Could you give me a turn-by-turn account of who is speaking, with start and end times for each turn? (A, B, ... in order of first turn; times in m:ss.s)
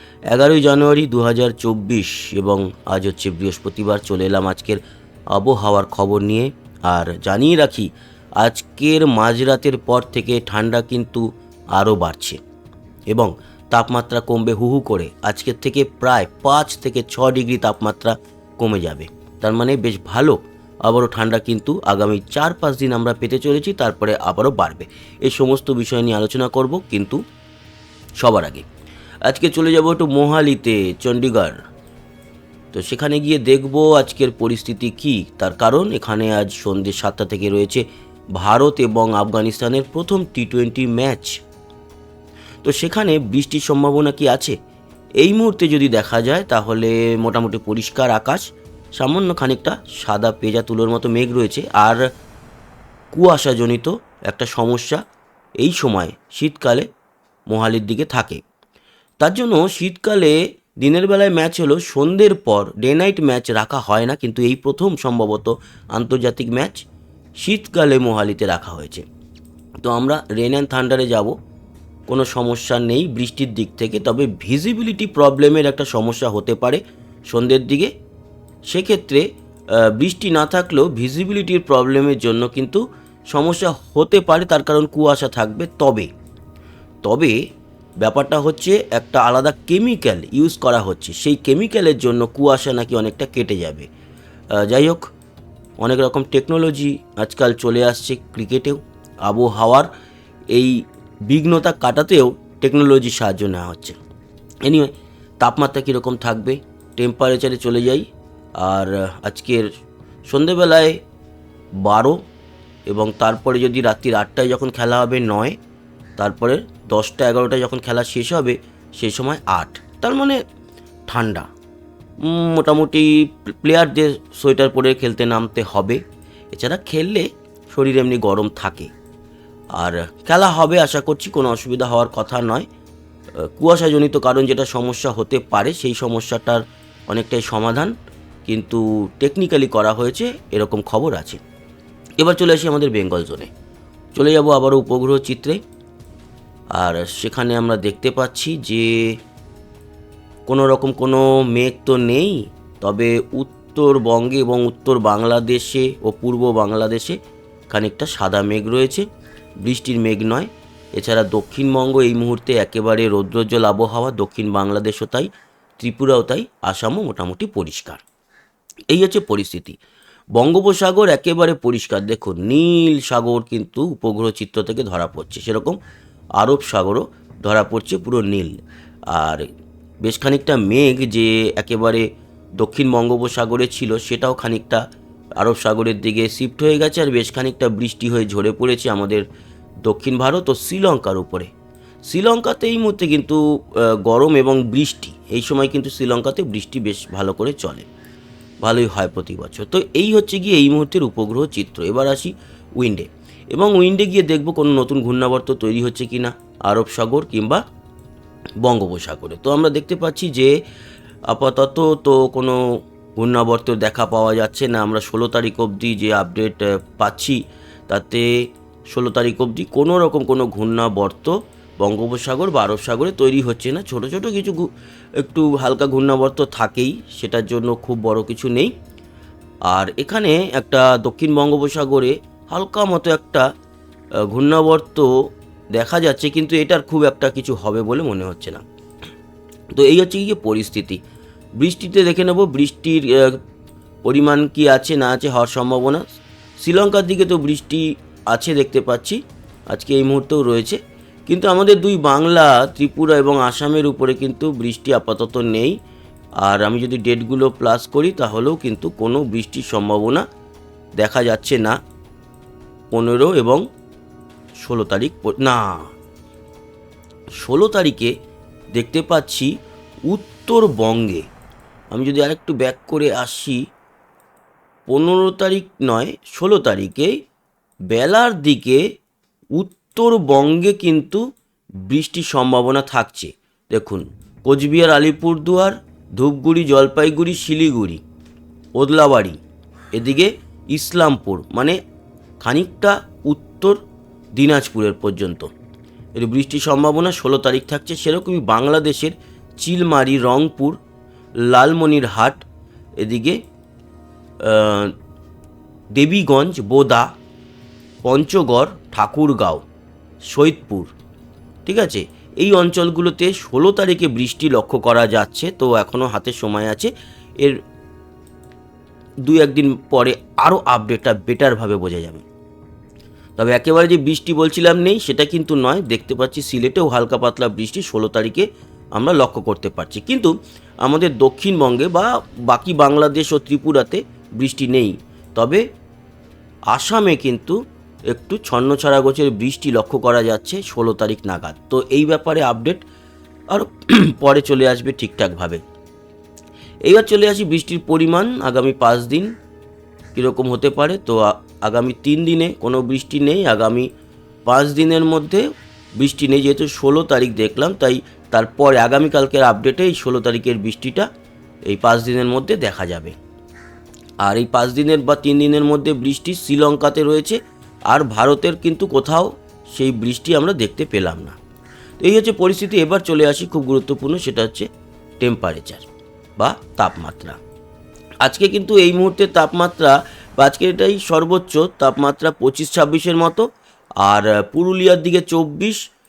0:00.3-0:04.8 A
0:05.3-0:12.4 A
0:13.1-0:27.2 A
0:28.2-0:28.6 A
0:29.2-0:31.6 A
0:32.7-0:37.8 A
0:38.3-0:41.4 A
0:42.6-0:44.5 A
0:45.2-0:52.0 A
0:53.1-0:55.0 A
0:55.6-0:56.9 A
0:57.5-0:58.4 A
0:59.2-1:06.8 A
1:07.4-1:09.0 A
1:09.8-1:11.3 A
1:12.1-1:17.9 A
1:18.7-1:19.2 A
1:19.8-1:26.1 A
1:27.0-1:27.4 A
1:28.0-1:33.9 A
1:34.6-1:35.0 A
1:35.8-1:39.9 A
1:40.5-1:44.0 A
1:44.6-1:48.0 A
1:48.6-1:49.7 A
1:50.3-1:51.0 A
1:51.8-1:52.2 A
1:52.9-1:55.6 A
1:56.2-2:00.4 A
2:01.1-2:01.5 A
2:02.2-2:06.0 A
2:06.5-2:08.9 A
2:09.8-2:12.7 A
2:13.4-2:17.9 A
2:18.5-2:21.4 A
2:22.2-2:23.5 A
2:24.1-2:25.6 A
2:26.7-2:29.1 A
2:30.5-2:37.2 A
2:37.7-2:39.0 A
2:39.6-2:48.0 A
2:48.9-2:49.8 A
2:50.3-2:55.8 A
2:56.4-2:58.6 A
2:59.1-2:59.5 A
3:00.0-3:02.0 A
3:02.6-3:04.8 A
3:05.4-3:09.2 A
3:09.8-3:11.5 A
3:12.1-3:17.9 A
3:18.6-3:27.6 A
3:28.6-3:30.5 A
3:31.3-3:32.6 A
3:33.1-3:38.3 A
3:38.9-3:44.7 A
3:45.2-3:48.7 A
3:49.7-3:53.4 A
3:54.3-3:55.1 A
3:55.7-3:58.6 A
3:59.7-4:01.0 A
4:01.6-4:03.4 A
4:04.0-4:06.0 A
4:06.6-4:09.2 A
4:09.7-4:15.8 A
4:16.4-4:20.2 A
4:21.0-4:21.8 A
4:22.9-4:23.6 A
4:24.6-4:25.8 A
4:27.4-4:28.1 A
4:28.7-4:29.5 A
4:30.0-4:31.2 A
4:31.9-4:33.6 A
4:34.9-4:37.1 A
4:37.9-4:38.8 A
4:39.5-4:41.2 A
4:41.8-4:48.0 A
4:48.8-4:49.4 A
4:49.9-4:51.8 A
4:52.4-4:53.8 A
4:54.3-4:55.5 A
4:56.2-5:00.8 A
5:01.4-5:02.4 A
5:03.0-5:03.4 A
5:04.4-5:04.9 A
5:05.9-5:07.1 A
5:08.0-5:09.6 A
5:10.3-5:10.9 A
5:11.6-5:17.6 A
5:19.2-5:22.2 A
5:23.4-5:35.6 A
5:36.7-5:37.6 A
5:38.1-5:42.8 A
5:43.5-5:45.6 A
5:46.8-5:49.3 A
5:50.1-5:53.9 A
5:54.4-6:01.1 A
6:01.6-6:03.1 A
6:04.2-6:11.4 A
6:12.0-6:14.7 A
6:15.2-6:15.9 A
6:16.4-6:17.4 A
6:18.2-6:23.4 A
6:24.0-6:25.8 A